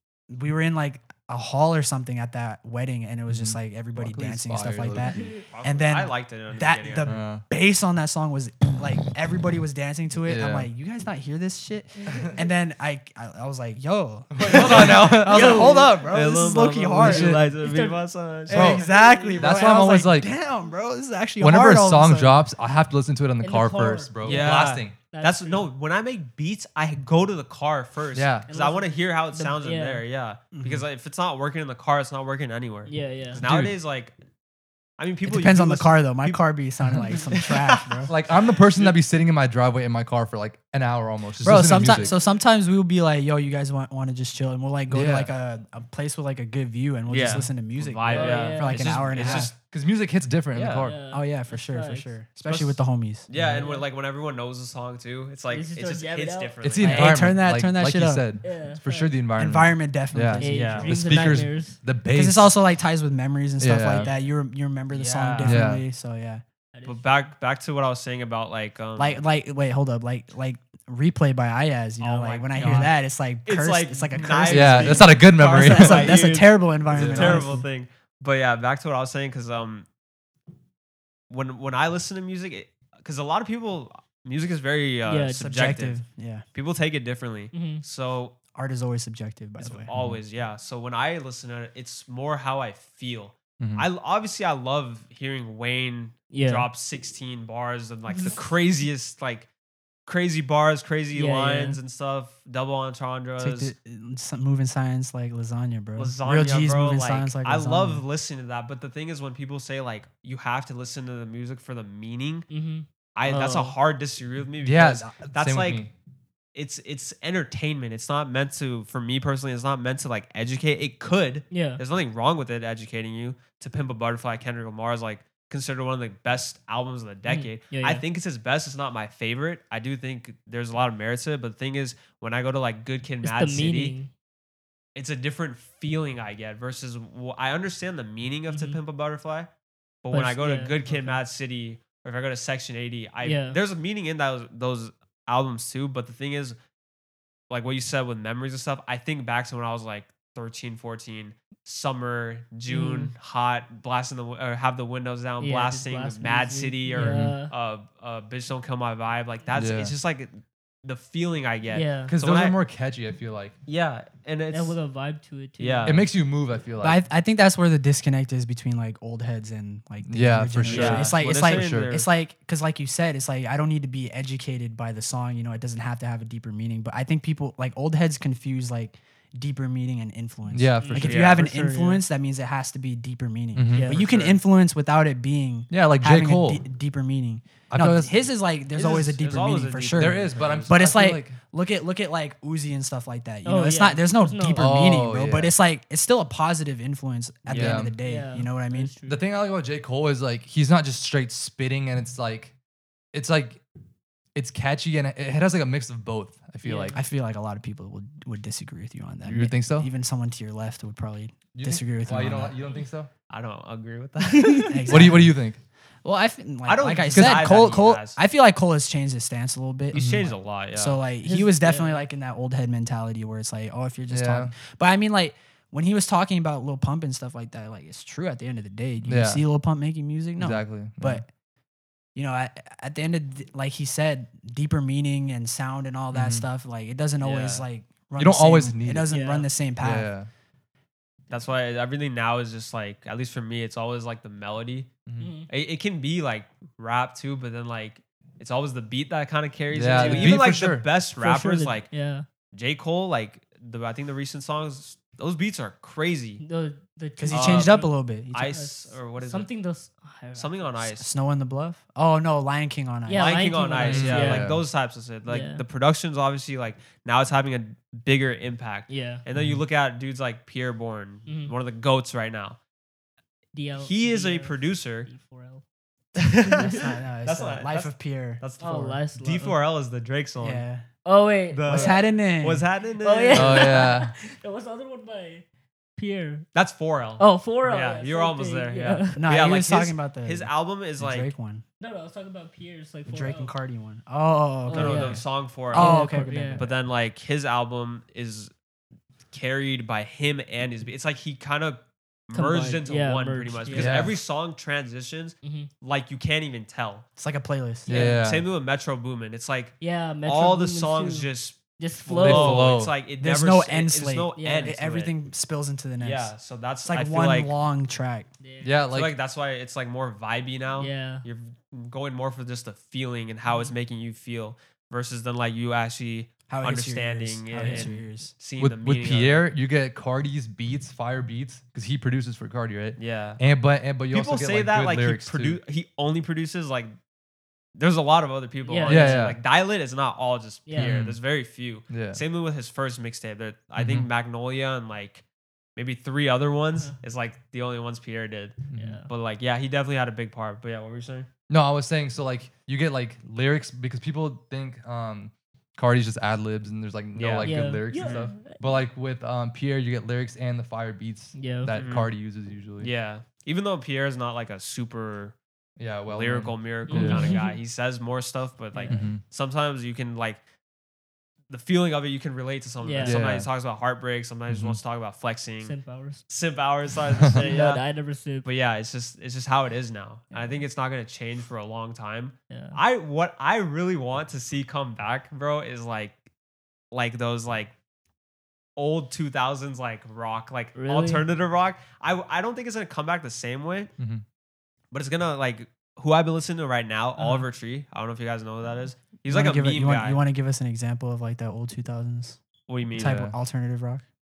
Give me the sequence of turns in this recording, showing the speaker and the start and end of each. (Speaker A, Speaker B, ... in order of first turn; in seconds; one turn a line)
Speaker A: 0.3-17.4
Speaker B: 3.3-5.4
Speaker C: 5.1-5.4
Speaker D: 5.4-7.2
Speaker B: 7.0-7.4
Speaker B: 10.2-10.7
Speaker B: 14.3-15.8
Speaker D: 14.7-18.8
Speaker C: 15.3-15.8
Speaker B: 17.0-17.5
Speaker C: 17.4-18.0
Speaker A: 18.5-22.4
Speaker B: 18.5-20.3
Speaker C: 18.5-19.4
Speaker B: 21.4-24.9
Speaker C: 23.4-25.7
Speaker D: 24.2-34.1
Speaker B: 28.1-28.5
Speaker C: 28.5-30.0
Speaker A: 30.5-30.8
Speaker C: 32.9-33.4
Speaker B: 33.4-33.7
Speaker D: 35.0-36.4
Speaker A: 35.2-38.1
Speaker D: 37.1-39.0
Speaker B: 38.1-42.1
Speaker A: 41.4-49.5
Speaker C: 41.7-42.4
Speaker B: 44.9-45.3
Speaker D: 47.1-49.5
Speaker C: 48.1-48.8
Speaker B: 48.7-51.0
Speaker D: 50.5-50.9
Speaker C: 50.8-52.1
Speaker A: 51.1-53.3
Speaker D: 52.4-57.2
Speaker B: 53.3-53.6
Speaker C: 53.5-53.9
Speaker C: 55.5-56.5
Speaker B: 56.6-62.5
Speaker A: 56.8-58.2
Speaker C: 58.4-59.1
Speaker A: 59.4-60.9
Speaker C: 60.4-61.8
Speaker D: 60.4-61.0
Speaker A: 62.1-66.4
Speaker B: 63.6-64.1
Speaker C: 63.9-64.2
Speaker D: 64.9-65.6
Speaker B: 65.4-65.8
Speaker C: 66.7-67.2
Speaker D: 66.8-69.2
Speaker A: 69.0-77.7
Speaker D: 72.0-79.9
Speaker B: 72.6-72.9
Speaker B: 74.5-76.2
Speaker B: 76.9-77.5
Speaker D: 81.3-86.0
Speaker C: 85.0-85.6
Speaker A: 85.4-86.4
Speaker D: 86.5-88.3
Speaker C: 87.5-87.8
Speaker A: 88.5-89.9
Speaker D: 89.6-99.5
Speaker B: 89.9-90.2
Speaker B: 93.6-93.9
Speaker C: 96.3-96.7
Speaker C: 98.1-98.4
Speaker D: 100.1-103.7
Speaker C: 101.1-101.8
Speaker A: 103.4-108.0
Speaker D: 106.0-112.5
Speaker C: 112.5-113.8
Speaker D: 113.1-115.8
Speaker B: 114.6-115.9
Speaker D: 116.5-133.9
Speaker C: 121.5-121.8
Speaker C: 127.2-128.0
Speaker C: 133.2-134.1
Speaker D: 134.9-139.5
Speaker C: 138.5-138.8
Speaker D: 140.0-146.6
Speaker C: 140.1-141.2
Speaker C: 143.2-143.6
Speaker D: 147.5-162.6
Speaker C: 152.7-153.1
Speaker C: 155.4-157.5
Speaker B: 156.9-157.4
Speaker B: 159.5-159.9
Speaker C: 161.7-162.1
Speaker B: 162.1-163.6
Speaker D: 163.7-164.8
Speaker C: 164.5-166.0
Speaker D: 165.6-166.1
Speaker B: 165.8-167.0
Speaker A: 166.8-198.9
Speaker B: 170.1-171.9
Speaker D: 170.6-172.1
Speaker B: 180.5-181.4
Speaker C: 180.8-182.0
Speaker D: 181.0-181.4
Speaker B: 183.5-183.9
Speaker C: 183.7-184.0
Speaker D: 183.9-184.4
Speaker B: 185.7-186.6
Speaker B: 187.7-188.1
Speaker D: 188.7-190.8
Speaker B: 189.9-191.4
Speaker C: 193.4-194.7
Speaker B: 194.5-195.5
Speaker D: 197.5-197.8
Speaker B: 197.5-197.9
Speaker C: 198.0-199.2
Speaker B: 199.0-202.5
Speaker B: 203.1-203.6
Speaker B: 204.3-207.0
Speaker C: 206.6-207.0
Speaker A: 206.9-212.5
Speaker B: 209.2-209.9
Speaker B: 211.5-213.1
Speaker D: 213.3-215.1
Speaker C: 214.3-214.8
Speaker A: 214.7-215.3
Speaker B: 214.9-215.6
Speaker A: 216.0-231.3
Speaker D: 216.7-218.2
Speaker B: 217.1-217.7
Speaker D: 219.9-221.0
Speaker B: 219.9-220.3
Speaker C: 221.2-222.0
Speaker B: 224.1-224.5
Speaker B: 229.0-229.4
Speaker B: 230.4-231.2
Speaker A: 232.1-240.1
Speaker B: 236.1-236.4
Speaker D: 237.2-237.6
Speaker B: 238.2-239.1
Speaker C: 239.1-239.5
Speaker B: 239.8-240.3
Speaker D: 241.3-244.9
Speaker B: 245.1-245.3
Speaker C: 245.2-245.5
Speaker D: 245.5-251.9
Speaker B: 249.7-250.9
Speaker C: 249.9-250.4
Speaker C: 251.2-252.2
Speaker D: 252.5-256.4
Speaker C: 256.4-260.8
Speaker A: 257.2-258.5
Speaker D: 257.3-257.8
Speaker D: 258.3-259.5
Speaker D: 260.3-261.1
Speaker A: 260.8-263.4
Speaker C: 263.1-264.5
Speaker D: 263.1-272.6
Speaker B: 263.8-264.6
Speaker C: 265.3-265.6
Speaker C: 268.9-269.2
Speaker B: 269.3-269.6
Speaker C: 271.3-271.5
Speaker C: 273.5-275.6
Speaker D: 273.8-275.1
Speaker D: 276.1-280.6
Speaker C: 276.4-276.8
Speaker A: 276.6-278.4
Speaker C: 278.6-279.6
Speaker A: 280.4-280.9
Speaker C: 281.0-282.0
Speaker D: 281.5-283.9
Speaker A: 281.6-282.6
Speaker C: 283.0-285.4
Speaker B: 283.3-284.1
Speaker C: 285.9-286.5
Speaker D: 286.5-291.3
Speaker C: 287.2-289.2
Speaker A: 289.2-291.6
Speaker C: 291.8-293.5
Speaker A: 293.1-296.7
Speaker C: 294.7-296.6
Speaker D: 294.7-298.5
Speaker D: 299.3-307.0
Speaker C: 302.3-304.0
Speaker B: 303.7-304.2
Speaker C: 305.4-305.7
Speaker A: 307.2-307.9
Speaker B: 307.9-308.4
Speaker C: 307.9-308.2
Speaker D: 307.9-315.1
Speaker C: 309.8-312.7
Speaker B: 312.2-312.9
Speaker A: 313.2-316.3
Speaker C: 314.4-314.7
Speaker D: 316.0-317.5
Speaker A: 316.8-318.3
Speaker C: 318.4-318.8
Speaker B: 318.6-319.1
Speaker D: 318.9-329.5
Speaker C: 320.8-321.2
Speaker A: 326.5-328.3
Speaker C: 327.6-327.9
Speaker B: 328.6-335.6
Speaker D: 333.0-333.4
Speaker D: 334.1-336.9
Speaker D: 337.8-345.2
Speaker C: 338.6-339.3
Speaker B: 338.9-339.4
Speaker C: 340.7-341.0
Speaker B: 340.8-341.2
Speaker B: 341.9-342.2
Speaker B: 343.8-344.1
Speaker D: 345.8-351.3
Speaker B: 348.7-349.0
Speaker C: 348.7-349.1
Speaker B: 351.5-362.9
Speaker D: 357.1-358.3
Speaker C: 357.4-358.6
Speaker C: 361.3-361.8
Speaker D: 361.7-362.1
Speaker D: 362.8-365.4
Speaker B: 365.8-367.4
Speaker D: 366.1-370.4
Speaker C: 366.9-367.6
Speaker C: 368.7-369.1
Speaker B: 368.9-369.2
Speaker D: 371.5-377.8
Speaker C: 372.8-373.2
Speaker B: 373.0-373.5
Speaker B: 374.5-374.8
Speaker C: 375.6-376.2
Speaker C: 377.3-378.5
Speaker D: 378.4-386.2
Speaker C: 382.5-382.8
Speaker D: 386.9-387.7
Speaker D: 388.8-393.9
Speaker C: 390.8-391.2
Speaker B: 394.0-394.2
Speaker D: 394.9-400.2
Speaker C: 397.2-397.5
Speaker A: 399.3-402.4
Speaker D: 402.7-403.2
Speaker A: 402.9-404.0
Speaker B: 402.9-403.3